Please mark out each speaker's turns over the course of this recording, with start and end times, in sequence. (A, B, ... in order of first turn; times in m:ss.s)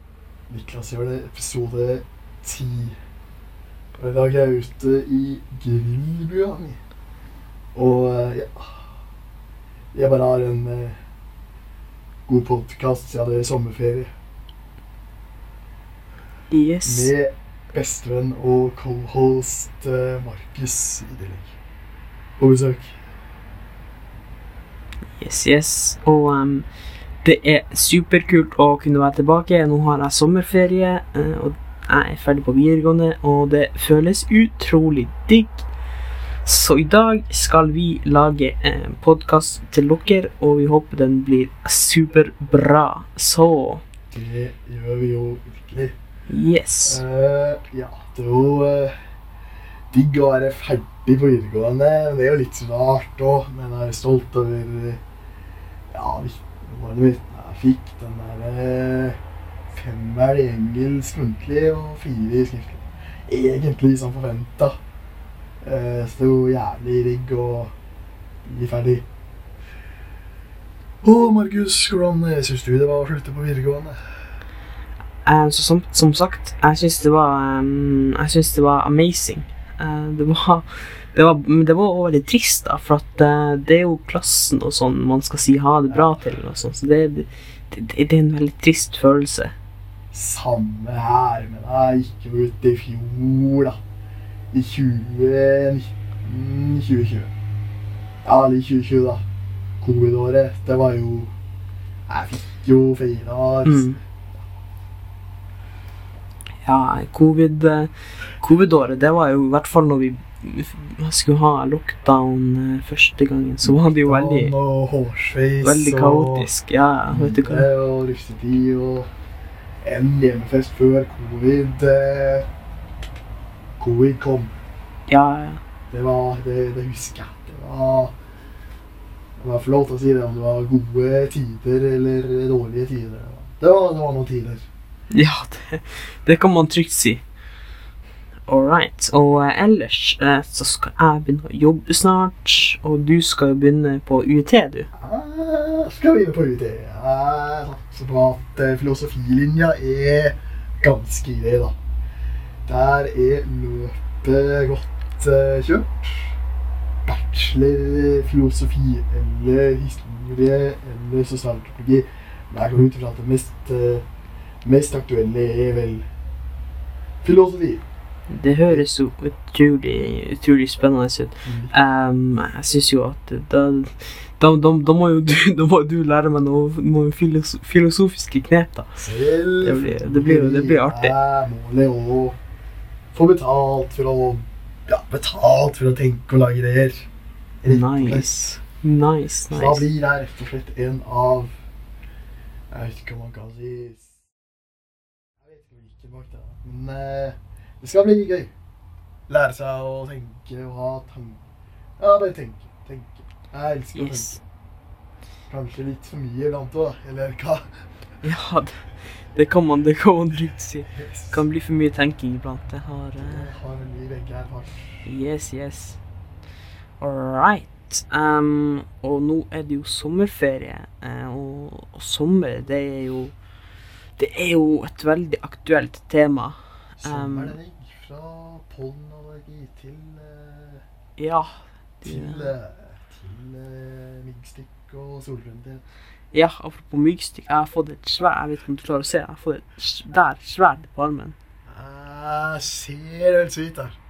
0:00.5-0:03.0 A
0:03.9-0:06.8 A
0:07.7-0:08.9 A
0:09.9-0:11.0 A
0:12.3-0:14.1 A
0:16.5-0:17.1 B
0:16.8-0:21.6 A
0:22.4-0:23.0 A
0:25.2-0:26.7 B
0:27.2-0:35.6 B
0:36.4-0:43.8 B
0:44.1-0:46.0 A
0:46.3-0:47.0 B
0:46.8-0:49.0 A
0:49.9-0:55.0 A
0:55.9-1:04.8 A
1:05.6-1:07.7 A
1:08.4-1:09.1 A
1:11.0-1:14.0 A
1:15.2-1:29.5 B
1:25.9-1:26.2 A
1:30.1-1:33.8 A
1:34.5-1:37.3 A
1:38.2-1:39.2 A
1:39.8-1:41.3 A
1:42.1-1:43.9 A
1:43.6-1:44.0 B
1:46.6-1:54.5 B
1:54.0-1:56.5 A
1:55.6-1:57.7 B
1:57.1-1:59.1 A
1:59.8-2:02.5 A
2:03.8-2:04.5 A
2:05.1-2:05.6 B
2:05.9-2:08.2 A
2:09.4-2:14.6 A
2:15.1-2:17.2 B
2:18.5-2:24.9 B
2:24.9-2:31.8 A
2:32.6-2:36.4 A
2:37.0-2:44.0 A
2:44.6-2:46.0 A
2:47.2-2:47.8 A
2:48.3-2:59.0 B
2:51.4-2:51.7 A
2:59.0-3:02.4 A
2:59.6-3:01.1 B
3:03.1-3:07.1 A
3:07.6-3:08.4 A
3:07.7-3:09.8 B
3:09.5-3:11.6 A
3:12.7-3:14.3 A
3:15.4-3:18.5 A
3:19.3-3:21.4 A
3:22.0-3:24.4 A
3:23.9-3:24.4 B
3:25.5-3:27.9 A
3:28.2-3:33.5 B
3:30.9-3:31.4 A
3:33.2-3:35.1 A
3:35.0-3:36.0 B
3:37.0-3:43.3 B
3:44.2-3:47.6 B
3:47.0-3:50.8 A
3:51.2-3:52.5 B
3:52.0-3:55.8 A
3:56.3-4:01.4 B
4:01.6-4:04.0 A